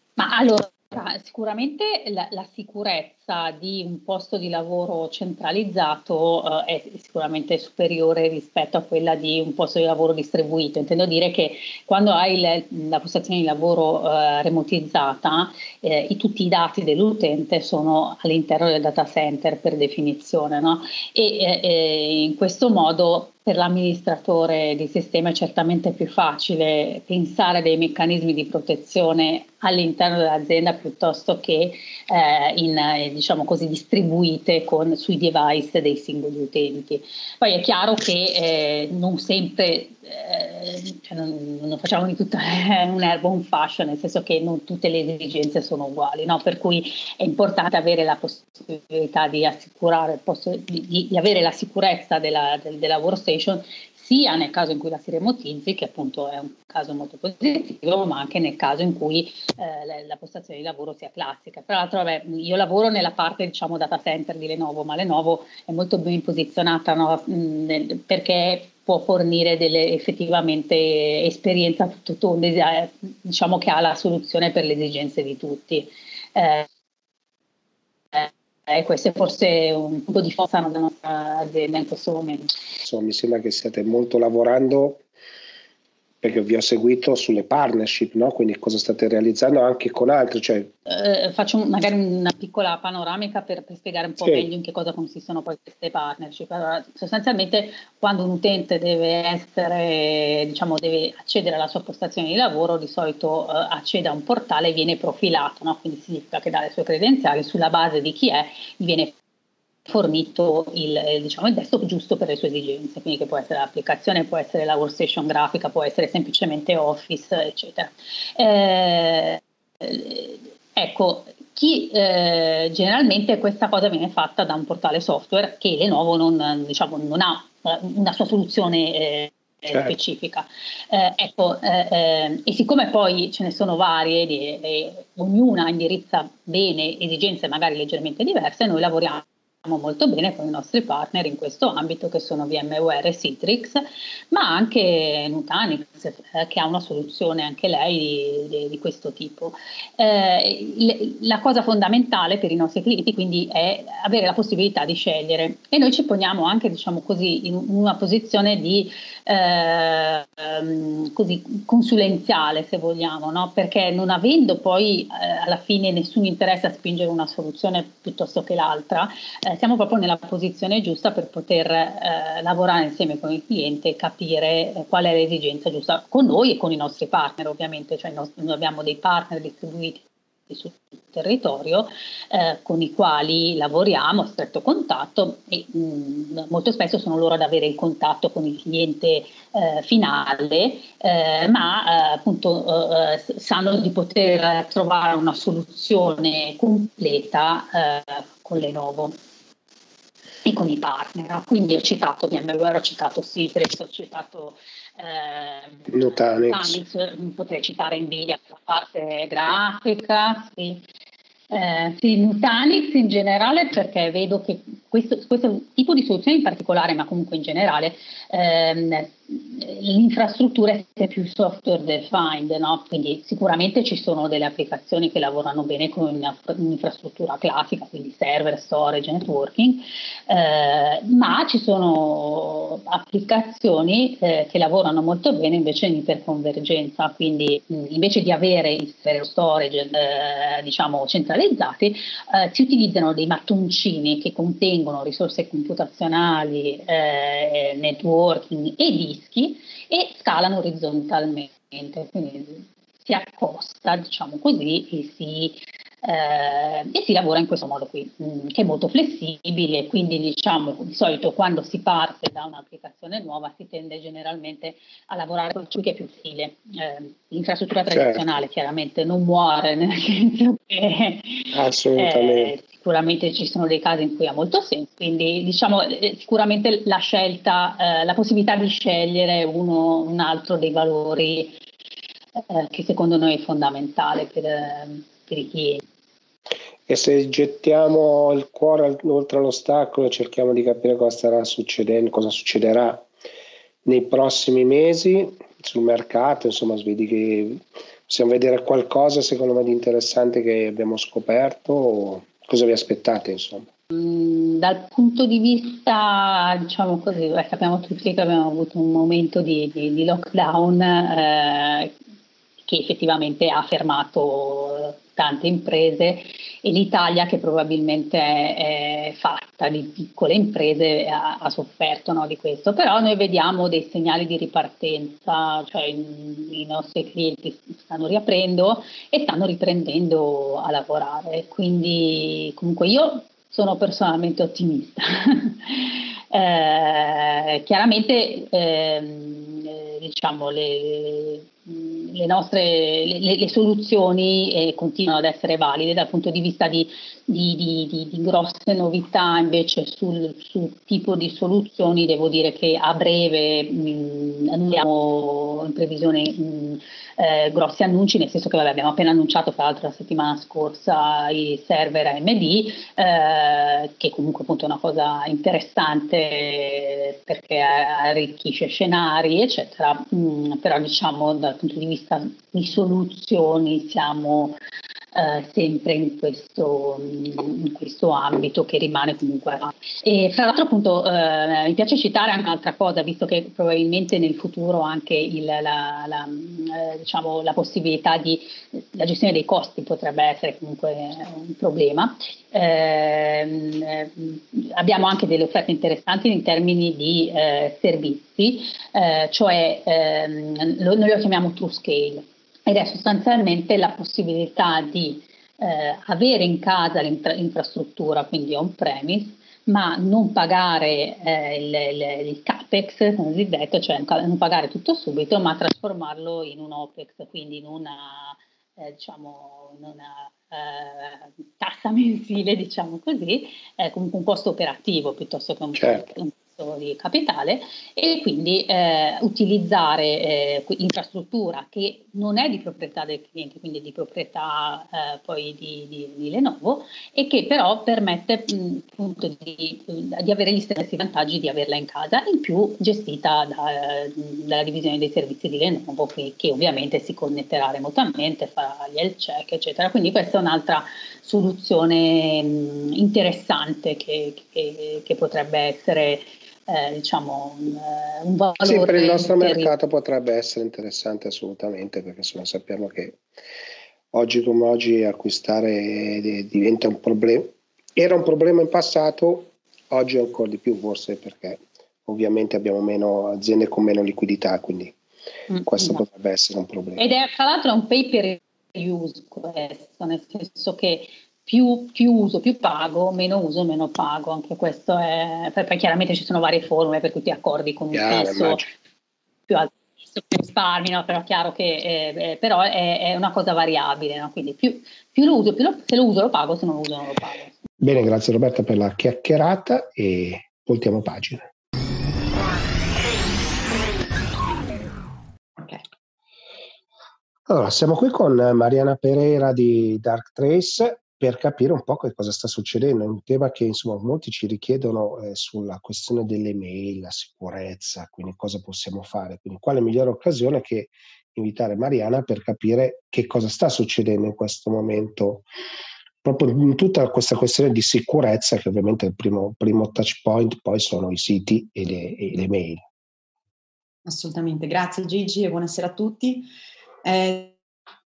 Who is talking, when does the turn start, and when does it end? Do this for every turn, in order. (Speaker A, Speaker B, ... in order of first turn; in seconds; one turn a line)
Speaker A: 0.2-76.7
Speaker A: 78.1-82.5
Speaker B: 82.8-85.0
Speaker B: 86.2-90.7
Speaker A: 90.9-109.2
Speaker B: 94.2-94.5
Speaker A: 109.9-199.2
Speaker A: 200.4-210.8
Speaker B: 205.9-206.8
Speaker A: 211.5-281.6
Speaker B: 267.9-268.3
Speaker B: 271.5-272.5
Speaker A: 282.4-285.8
Speaker B: 286.9-293.1
Speaker B: 293.9-303.7
Speaker A: 303.9-311.9
Speaker A: 312.7-374.6
Speaker A: 375.1-459.7
Speaker B: 425.8-426.1
Speaker B: 458.6-463.2
Speaker B: 464.1-474.9
Speaker A: 475.5-476.0
Speaker B: 475.7-477.0
Speaker A: 477.0-488.7
Speaker B: 487.9-488.7
Speaker A: 489.5-497.5
Speaker B: 497.8-501.5
Speaker C: 505.6-505.8
Speaker B: 507.5-525.5
Speaker B: 526.2-532.8
Speaker C: 534.0-536.5
Speaker C: 537.0-537.6